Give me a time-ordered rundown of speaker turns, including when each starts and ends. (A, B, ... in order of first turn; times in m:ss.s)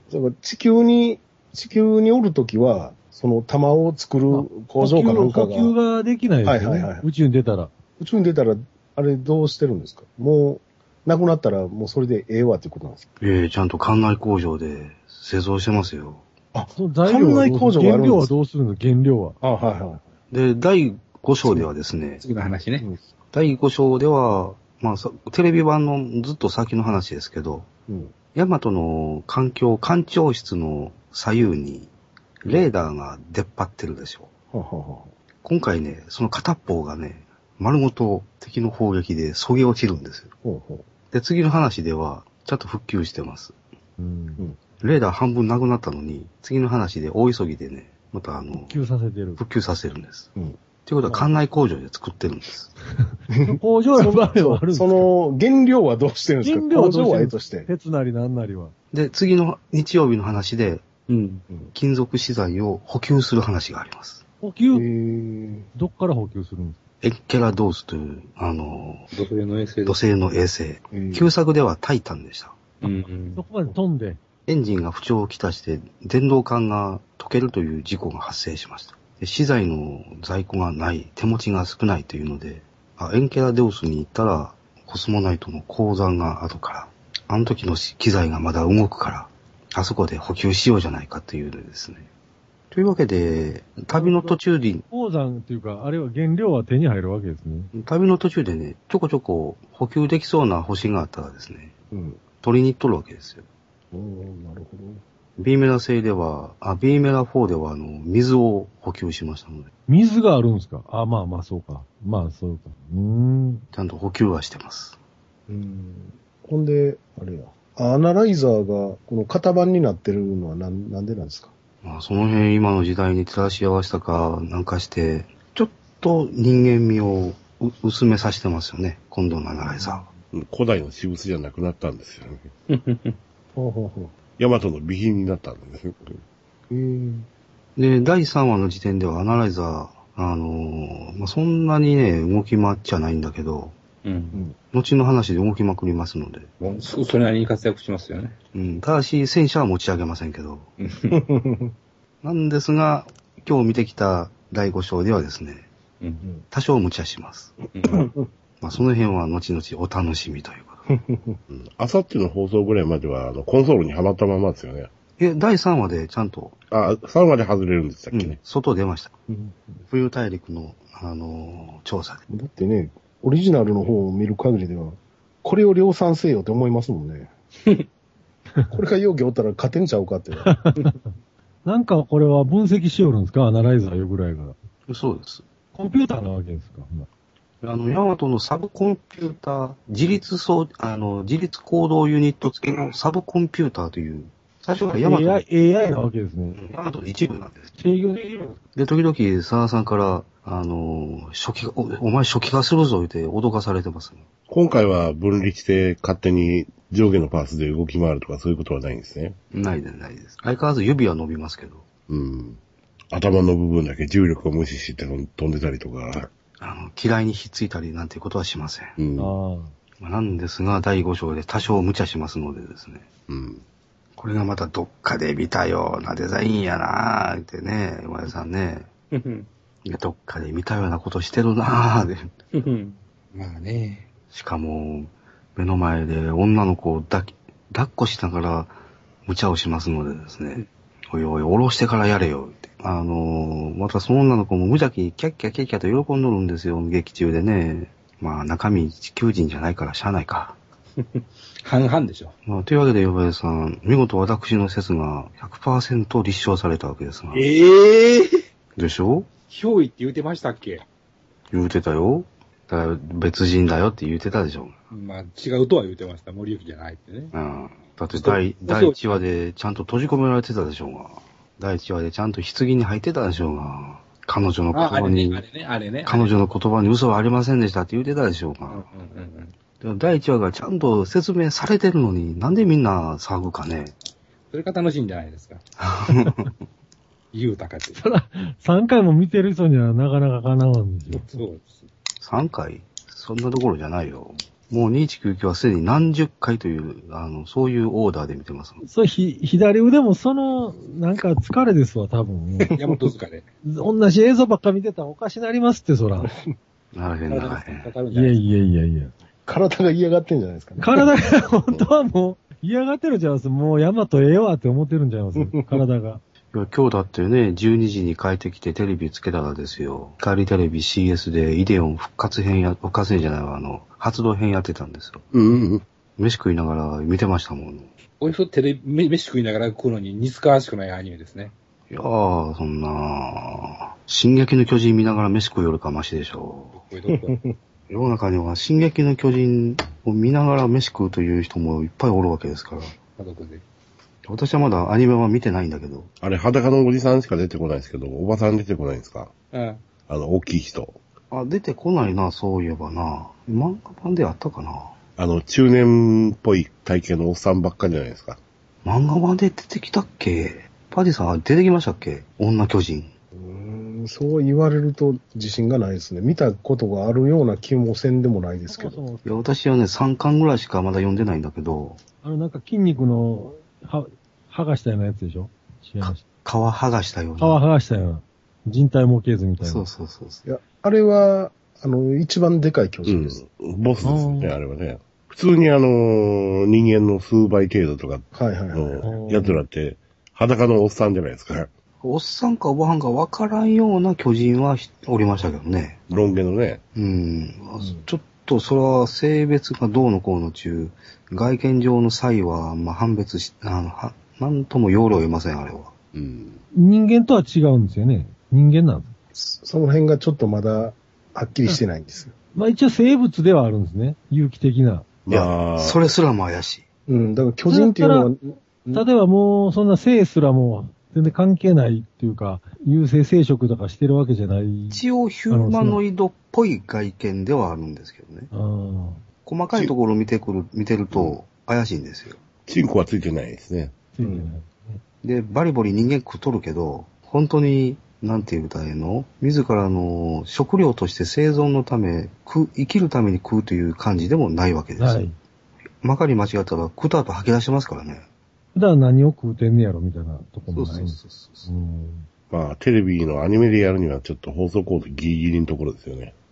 0:00.1-0:05.7 A
0:04.3-0:07.7 B
0:06.4-0:07.0 A
0:08.0-0:13.0 A
0:13.2-0:16.2 C
0:16.5-0:18.3 A
0:16.7-0:19.4 B
0:19.4-0:20.0 A
0:20.3-0:22.2 C
0:22.2-0:22.9 D
0:23.3-0:27.7 C
0:27.9-0:28.1 A
0:28.3-0:31.9 C
0:32.4-0:34.3 C
0:34.5-0:35.1 A
0:35.4-0:40.3 C
0:40.4-0:40.8 A
0:41.1-0:43.5 C
0:44.0-0:44.4 B
0:44.8-0:48.8 C
0:48.5-0:49.4 B
0:49.4-0:50.3 C
0:50.8-0:52.7 C
0:53.0-0:55.1 B
0:53.3-0:57.7 A
0:56.4-0:58.7 B
0:58.9-1:00.9 C
1:01.1-1:01.4 D
1:01.7-1:04.2 C
1:04.4-1:04.9 B
1:04.7-1:05.7 A
1:05.7-1:06.8 B
1:07.0-1:09.1 C
1:09.1-1:10.0 D
1:09.8-1:12.6 C
1:10.9-1:11.3 A
1:12.8-1:13.4 D
1:13.4-1:14.2 B
1:14.5-1:32.1 C
1:32.7-1:34.8 C
1:33.9-1:34.4 B
1:34.9-1:37.7 B
1:37.7-1:41.7 C
1:41.9-1:42.2 A
1:42.4-1:43.4 C
1:43.9-1:45.0 A
1:45.4-1:49.7 C
1:49.9-1:53.6 B
1:53.7-1:55.0 C
1:55.5-2:01.5 A
2:01.8-2:10.0 C
2:09.8-2:10.1 A
2:10.3-2:12.5 E
2:12.7-2:13.2 D
2:13.5-2:14.1 A
2:14.4-2:16.2 E
2:16.7-2:17.3 A
2:17.8-2:23.8 C
2:24.0-2:24.4 D
2:24.7-2:26.5 C
2:26.6-2:28.4 D
2:28.5-2:30.7 C
2:30.8-2:31.2 D
2:31.1-2:31.7 A
2:32.2-2:35.6 C
2:36.5-2:37.5 C
2:37.7-2:38.1 D
2:37.8-2:38.3 A
2:38.6-2:40.8 C
2:40.9-2:41.4 A
2:41.5-2:44.9 E
2:45.2-2:46.6 C
2:46.7-2:48.4 E
2:48.1-2:49.2 C
2:49.3-2:49.8 A
2:49.9-2:52.2 C
2:52.3-2:57.3 A
2:58.7-3:00.6 A
3:00.4-3:01.0 B
3:01.6-3:04.6 B
3:04.9-3:05.4 C
3:05.7-3:07.1 B
3:07.6-3:15.4 C
3:15.0-3:16.6 B
3:16.5-3:17.7 C
3:17.8-3:18.6 B
3:18.7-3:24.2 C
3:24.5-3:29.4 E
3:29.5-3:31.8 C
3:32.1-3:32.6 E
3:33.1-3:36.3 E
3:36.6-3:39.0 C
3:39.0-3:39.4 E
3:39.2-3:39.7 B
3:40.0-3:43.0 C
3:43.3-3:43.6 E
3:44.2-3:48.9 C
3:49.1-3:49.5 D
3:49.8-3:52.3 C
3:52.5-3:54.1 D
3:54.3-3:58.7 C
3:59.2-4:10.6 C
4:11.0-4:12.3 D
4:12.4-4:17.4 C
4:17.3-4:18.4 D
4:18.8-4:19.3 C
4:19.5-4:20.8 D
4:21.5-4:24.8 C
4:24.9-4:27.3 D
4:27.3-4:35.4 C
4:28.1-4:29.2 D
4:34.7-4:36.4 D
4:36.0-4:38.8 C
4:38.7-4:39.5 D
4:39.8-4:43.9 C
4:44.5-4:45.6 D
4:45.8-4:46.5 C
4:47.3-4:48.0 D
4:48.0-4:51.3 B
4:51.2-4:51.9 D
4:52.2-4:58.8 C
4:58.8-5:02.7 B
5:02.7-5:03.5 D
5:03.6-5:06.3 B
5:06.2-5:06.5 A
5:06.9-5:07.9 C
5:07.3-5:08.4 D
5:08.1-5:09.1 B
5:09.4-5:11.1 A
5:10.8-5:16.2 B
5:15.4-5:15.8 A
5:16.5-5:25.2 C
5:25.3-5:25.8 E
5:26.2-5:27.9 C
5:28.2-5:31.5 D
5:31.9-5:36.8 C
5:36.7-5:37.3 D
5:37.1-5:37.6 A
5:37.9-5:42.9 C
5:43.2-5:43.6 D
5:44.2-5:46.1 C
5:46.2-5:49.3 E
5:49.5-5:49.8 D
5:50.1-5:51.0 E
5:51.3-5:54.9 C
5:55.2-5:58.4 E
5:58.8-6:03.1 C
6:03.4-6:09.0 A
6:08.7-6:09.4 B
6:09.2-6:12.0 C
6:12.2-6:16.2 B
6:16.0-6:17.6 C
6:17.4-6:19.9 B
6:19.6-6:20.4 C
6:20.4-6:23.4 A
6:23.1-6:31.7 E
6:24.0-6:24.6 B
6:28.3-6:29.3 A
6:29.0-6:29.6 B
6:32.0-6:36.0 C
6:36.1-6:36.8 E
6:36.9-6:45.9 C
6:37.8-6:38.0 A
6:46.1-6:46.6 E
6:46.7-6:49.1 B
6:49.3-6:52.3 A
6:52.5-6:55.0 B
6:55.3-6:56.0 E
6:55.3-6:56.8 C
6:57.1-6:59.0 A
6:57.7-6:58.3 B
6:58.9-7:06.0 B
7:04.9-7:08.5 C
7:08.5-7:09.2 B
7:09.4-7:12.4 C
7:12.6-7:13.9 E
7:14.1-7:15.0 B
7:14.2-7:14.5 A
7:15.2-7:25.3 C
7:25.0-7:25.4 B
7:26.0-7:28.2 C
7:28.7-7:32.3 B
7:30.7-7:31.7 C
7:32.5-7:36.3 E